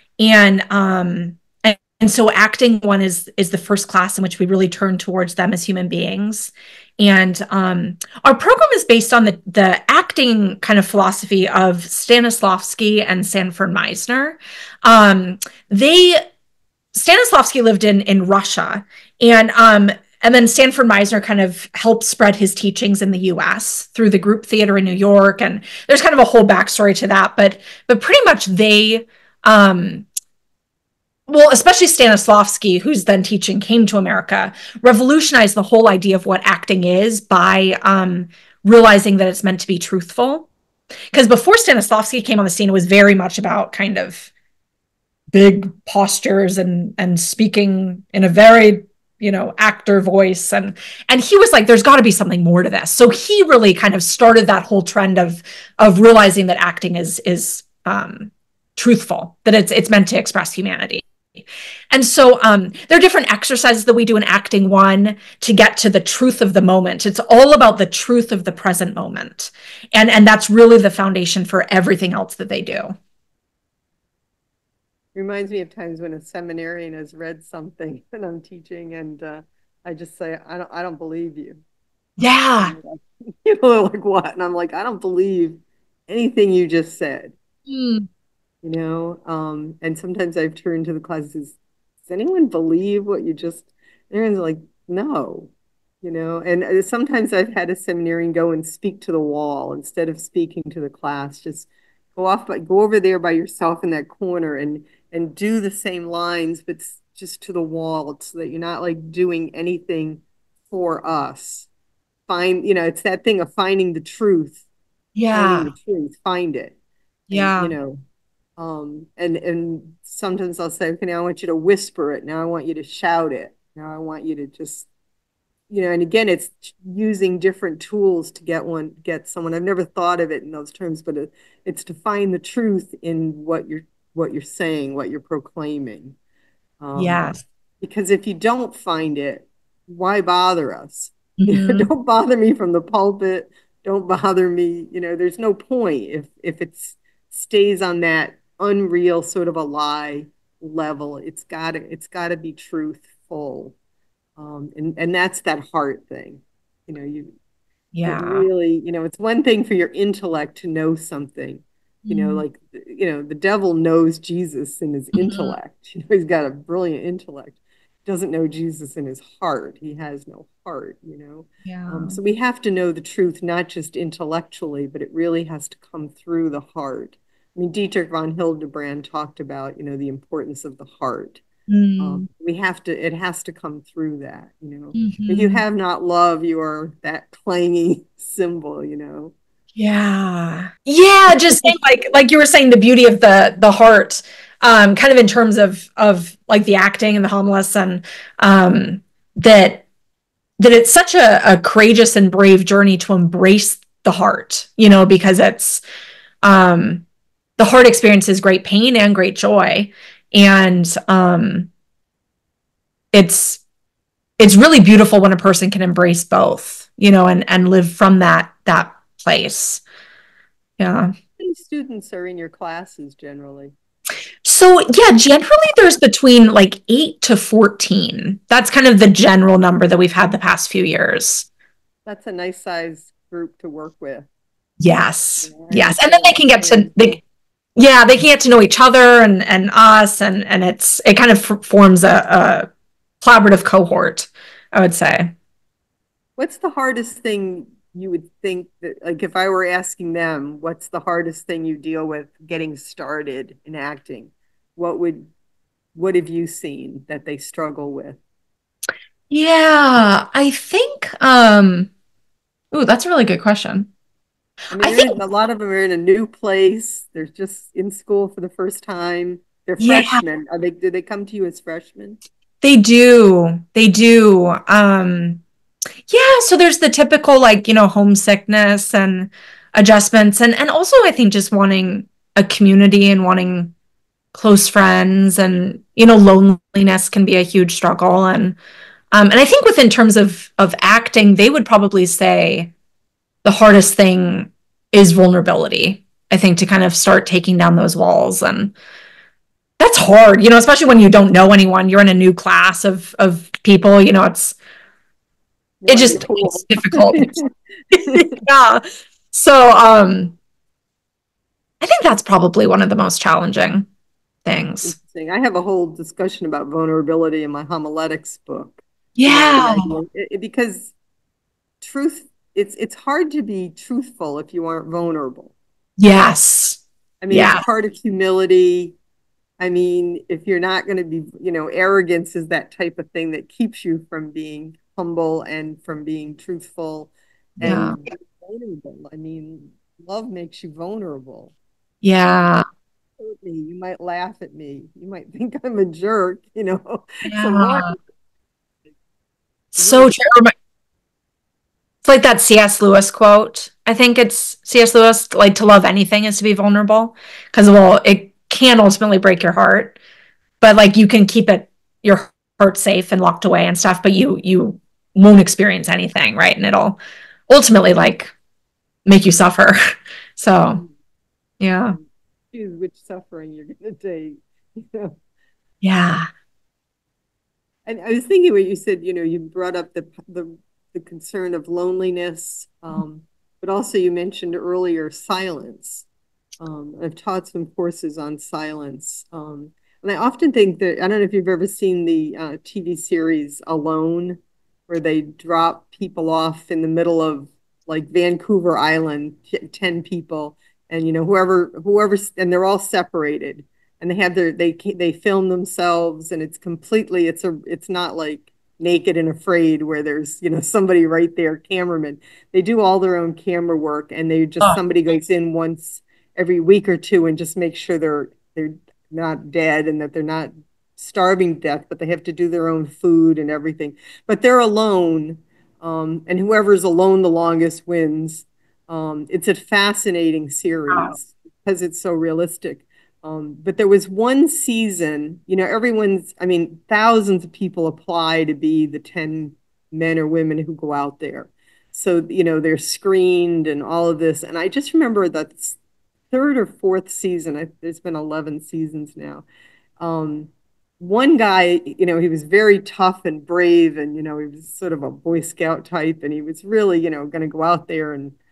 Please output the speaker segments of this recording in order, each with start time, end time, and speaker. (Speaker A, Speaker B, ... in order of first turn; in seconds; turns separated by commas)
Speaker A: 0.2-16.2, Speaker A: 16.9-30.0, Speaker A: 31.3-40.5, Speaker A: 41.1-44.3, Speaker A: 45.3-61.0, Speaker A: 61.9-72.9, Speaker B: 75.1-81.6, Speaker A: 82.2-82.7, Speaker B: 82.6-87.3, Speaker A: 87.7-88.1, Speaker B: 88.6-95.5, Speaker B: 96.0-111.7, Speaker B: 112.3-114.6, Speaker A: 115.2-115.7, Speaker B: 115.3-116.7, Speaker A: 117.3-117.7, Speaker B: 117.3-118.0, Speaker B: 118.6-124.9, Speaker B: 125.7-136.2, Speaker B: 136.8-153.7, Speaker A: 136.9-137.4, Speaker A: 141.4-141.9, Speaker B: 154.4-157.3, Speaker A: 157.9-158.4, Speaker B: 158.0-181.4, Speaker A: 162.0-162.4, Speaker A: 165.2-165.6, Speaker A: 171.6-172.2, Speaker A: 181.7-182.3, Speaker B: 182.0-189.3, Speaker A: 184.9-185.6, Speaker A: 189.7-199.8, Speaker B: 191.3-191.7, Speaker A: 200.6-205.8, Speaker A: 206.4-207.0, Speaker A: 207.6-211.7, Speaker A: 213.1-213.6, Speaker A: 214.4-219.8, Speaker A: 220.8-221.1, Speaker B: 221.4-223.7, Speaker A: 224.4-231.5, Speaker B: 232.1-234.2, Speaker A: 234.8-237.2, Speaker B: 235.4-237.2, Speaker A: 237.8-242.7, Speaker A: 243.2-245.3, Speaker B: 246.4-255.3, Speaker B: 255.9-258.2, Speaker A: 259.3-261.9, Speaker A: 262.7-263.9, Speaker B: 264.7-272.2, Speaker A: 264.8-265.1, Speaker A: 269.8-270.2, Speaker A: 272.6-275.4, Speaker A: 276.1-283.7, Speaker A: 284.3-288.6, Speaker A: 289.1-292.7, Speaker A: 293.4-298.7, Speaker A: 299.8-304.6, Speaker B: 305.8-308.3, Speaker A: 305.9-307.3, Speaker A: 308.1-310.4, Speaker A: 311.8-313.9, Speaker A: 314.4-314.9, Speaker B: 314.8-320.9, Speaker A: 319.2-319.9, Speaker B: 321.8-325.5, Speaker A: 326.0-326.8, Speaker B: 327.2-328.9, Speaker A: 327.3-327.6, Speaker B: 329.6-341.5, Speaker A: 337.6-338.0, Speaker A: 342.0-342.6, Speaker B: 343.2-348.0, Speaker A: 347.2-347.9, Speaker A: 349.7-350.5, Speaker B: 349.8-350.1, Speaker A: 352.0-360.0, Speaker A: 360.6-368.3, Speaker A: 369.1-369.8, Speaker A: 370.4-370.8, Speaker A: 371.6-372.0, Speaker B: 371.9-375.1, Speaker A: 375.8-376.3, Speaker B: 377.9-386.1, Speaker B: 386.6-445.8, Speaker B: 446.3-449.4, Speaker B: 450.0-458.3